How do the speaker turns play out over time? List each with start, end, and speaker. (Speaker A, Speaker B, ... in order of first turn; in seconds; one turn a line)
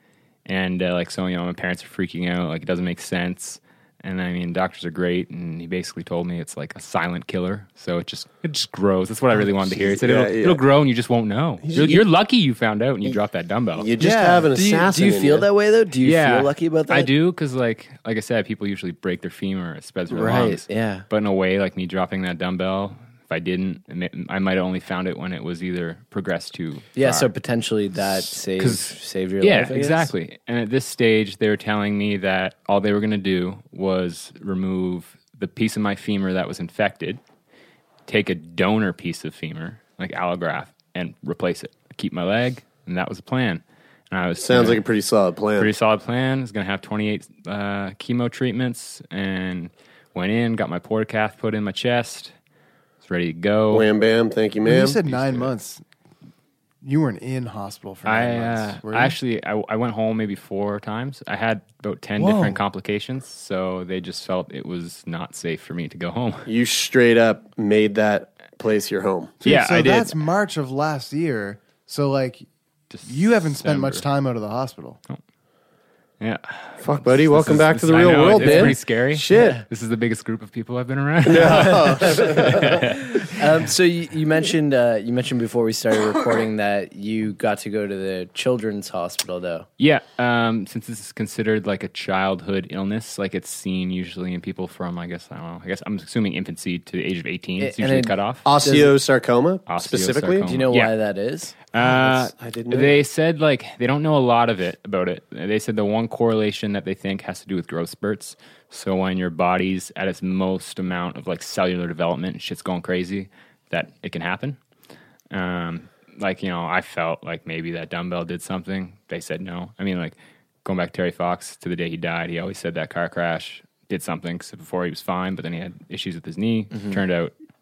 Speaker A: 0.5-13.9
Speaker B: 9.6-10.6
Speaker B: 11.7-12.0
Speaker B: 13.8-15.5
Speaker C: 14.0-14.5
Speaker D: 14.5-17.1
Speaker A: 16.0-27.3
Speaker D: 20.1-21.0
Speaker D: 26.9-30.1
Speaker A: 28.5-37.2
Speaker A: 38.1-44.8
Speaker B: 44.4-45.7
Speaker A: 45.6-52.3
Speaker A: 53.0-53.9
Speaker B: 53.7-55.0
Speaker C: 54.6-55.8
Speaker A: 55.1-55.5
Speaker C: 56.8-59.1
Speaker A: 58.0-66.5
Speaker C: 62.1-62.6
Speaker B: 66.5-69.4
Speaker C: 69.4-72.4
Speaker A: 69.4-70.2
Speaker A: 72.9-74.0
Speaker C: 73.0-75.0
Speaker A: 76.2-83.3
Speaker B: 76.8-79.6
Speaker D: 78.3-78.7
Speaker B: 81.2-82.8
Speaker D: 83.3-89.7
Speaker A: 89.8-98.5
Speaker D: 97.6-98.9
Speaker B: 98.4-100.5
Speaker A: 99.7-100.9
Speaker D: 100.4-101.5
Speaker A: 101.7-114.6
Speaker B: 101.8-103.0
Speaker A: 115.3-127.3